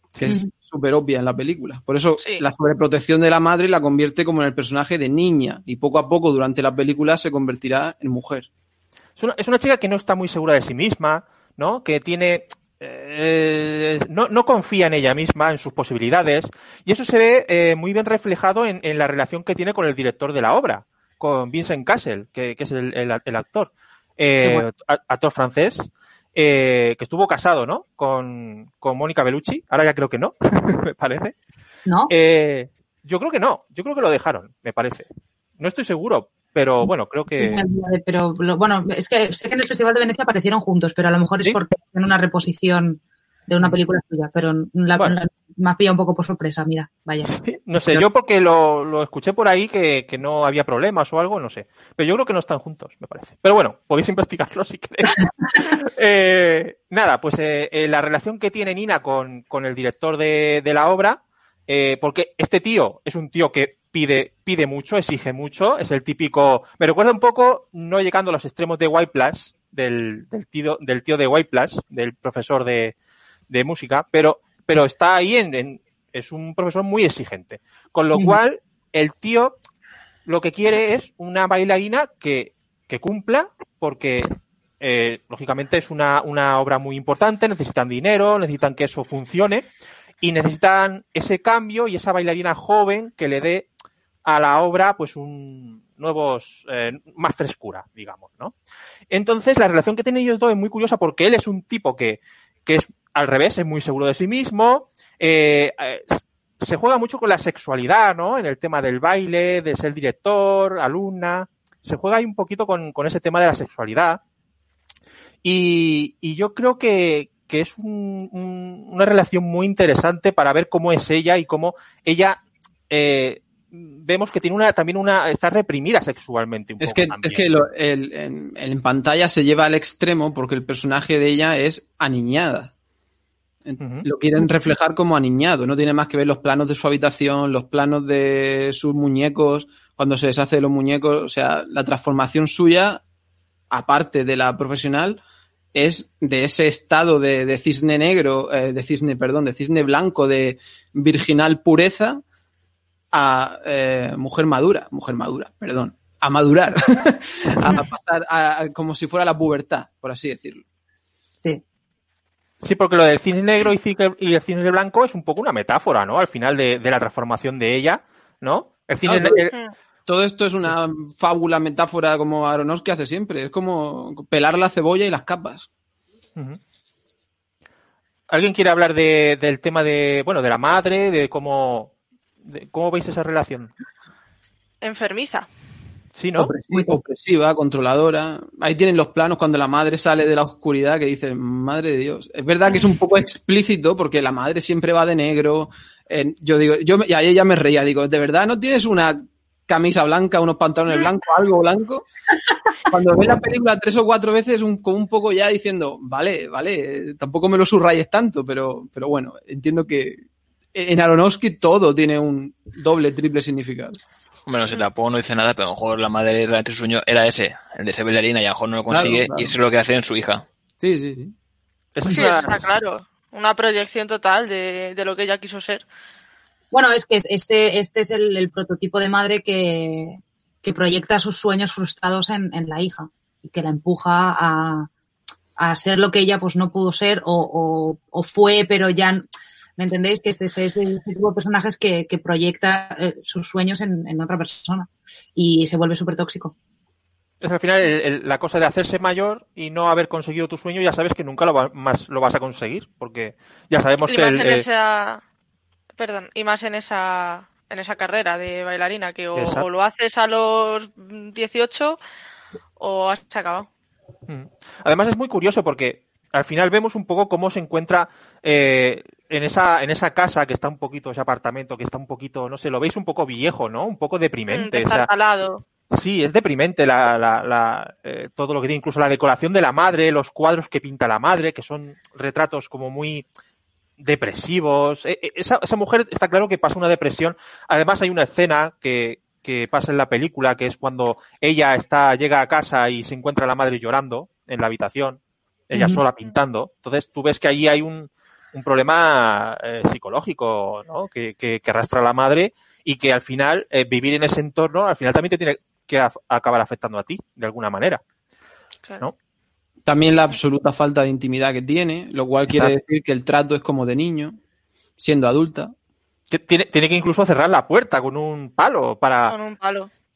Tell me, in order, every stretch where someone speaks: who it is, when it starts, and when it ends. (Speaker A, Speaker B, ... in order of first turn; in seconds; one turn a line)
Speaker A: 0.1-8.5
Speaker B: 9.2-31.3
Speaker C: 31.9-32.1
Speaker B: 32.1-37.6
Speaker C: 37.4-47.3
Speaker B: 47.2-72.9
Speaker B: 73.5-79.5
Speaker B: 80.2-89.7
Speaker B: 90.2-93.7
Speaker B: 94.2-98.5
Speaker B: 99.1-114.2
Speaker B: 115.4-127.5
Speaker A: 126.8-132.7
Speaker A: 133.6-143.0
Speaker B: 133.8-134.0
Speaker A: 143.7-145.2
Speaker A: 145.7-152.2
Speaker A: 153.1-160.6
Speaker B: 162.6-169.5
Speaker A: 169.1-169.4
Speaker A: 170.1-175.7
Speaker B: 178.3-181.9
Speaker B: 182.4-183.7
Speaker D: 184.8-185.5
Speaker B: 186.1-186.5
Speaker A: 186.4-202.1
Speaker C: 186.5-186.9
Speaker D: 192.7-192.9
Speaker A: 202.9-210.2
Speaker A: 210.7-214.0
Speaker E: 214.5-220.4
Speaker A: 218.9-219.5
Speaker A: 220.8-221.3
Speaker B: 221.9-222.7
Speaker D: 222.1-225.8
Speaker C: 226.7-234.9
Speaker C: 235.6-239.2
Speaker C: 239.8-246.5
Speaker B: 247.4-254.6
Speaker D: 254.1-255.2
Speaker D: 256.0-262.0
Speaker B: 259.4-259.7
Speaker D: 262.8-263.7
Speaker B: 264.3-275.1
Speaker D: 274.5-275.6
Speaker B: 275.9-283.2
Speaker B: 284.0-295.2
Speaker B: 295.7-308.0
Speaker C: 295.7-296.0
Speaker A: 309.9-314.4
Speaker B: 312.5-312.8
Speaker A: 315.0-315.7
Speaker B: 316.3-319.3
Speaker D: 319.3-319.9